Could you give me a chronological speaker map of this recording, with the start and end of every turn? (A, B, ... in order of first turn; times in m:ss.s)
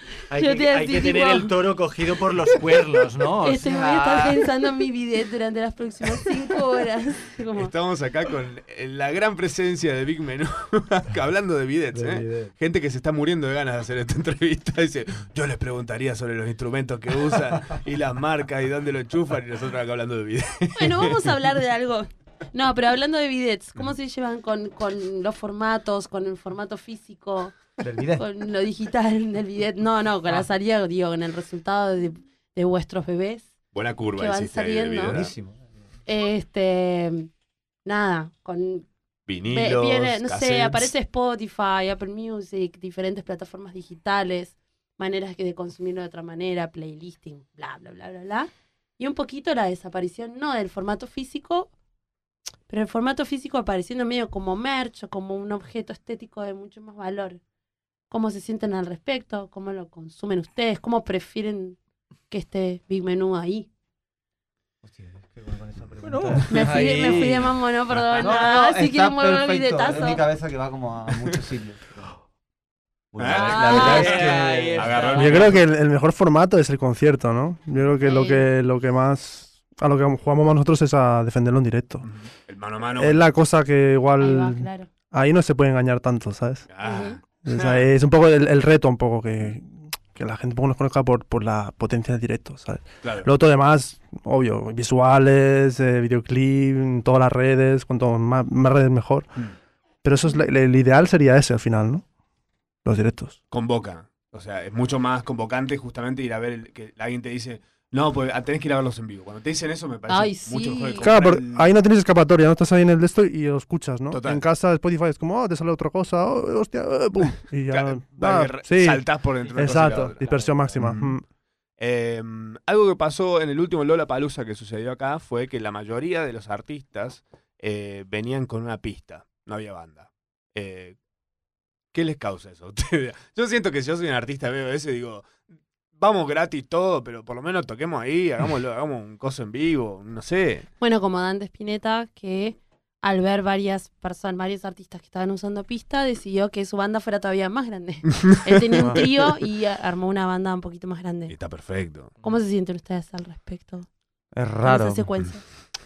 0:00.3-0:04.5 A
0:00.3-0:01.5 B
0:03.4-0:07.7 B
0:07.5-0:21.3 C
0:11.9-0:12.5 D
0:20.7-0:33.5 B
0:27.8-0:28.2 D
0:33.7-0:35.3 C
0:34.2-0:35.2 B
0:35.1-0:35.7 D
0:36.0-0:37.3 B
0:37.8-0:38.9 B
0:39.2-0:40.9 C
0:39.5-0:51.7 B
0:52.7-0:57.4 B
0:58.1-1:01.8 B
1:02.3-1:03.7 B
1:04.8-1:07.3 D
1:06.0-1:07.5 A
1:06.5-1:10.2 B
1:08.2-1:12.1 D
1:13.1-1:15.3 D
1:13.2-1:15.6 C
1:13.3-1:14.3 B
1:13.5-1:15.6 A
1:15.2-1:22.1 E
1:18.0-1:18.5 B
1:22.0-1:23.3 C
1:22.9-1:26.7 E
1:24.2-1:24.9 B
1:26.7-1:27.9 C
1:26.8-1:27.2 B
1:27.4-1:39.3 E
1:33.0-1:33.3 C
1:40.0-1:42.0 E
1:42.8-1:43.4 E
1:43.5-1:51.7 C
1:50.1-1:51.2 B
1:51.0-2:01.2 E
1:54.1-1:54.4 C
1:57.7-2:01.2 C
1:59.3-2:00.8 A
2:01.8-2:11.0 C
2:11.9-2:15.4 C
2:16.0-2:20.7 C
2:20.8-2:31.3 B
2:28.8-2:29.1 D
2:31.3-2:32.1 C
2:32.2-2:33.9 B
2:34.3-2:35.1 D
2:34.6-2:35.4 B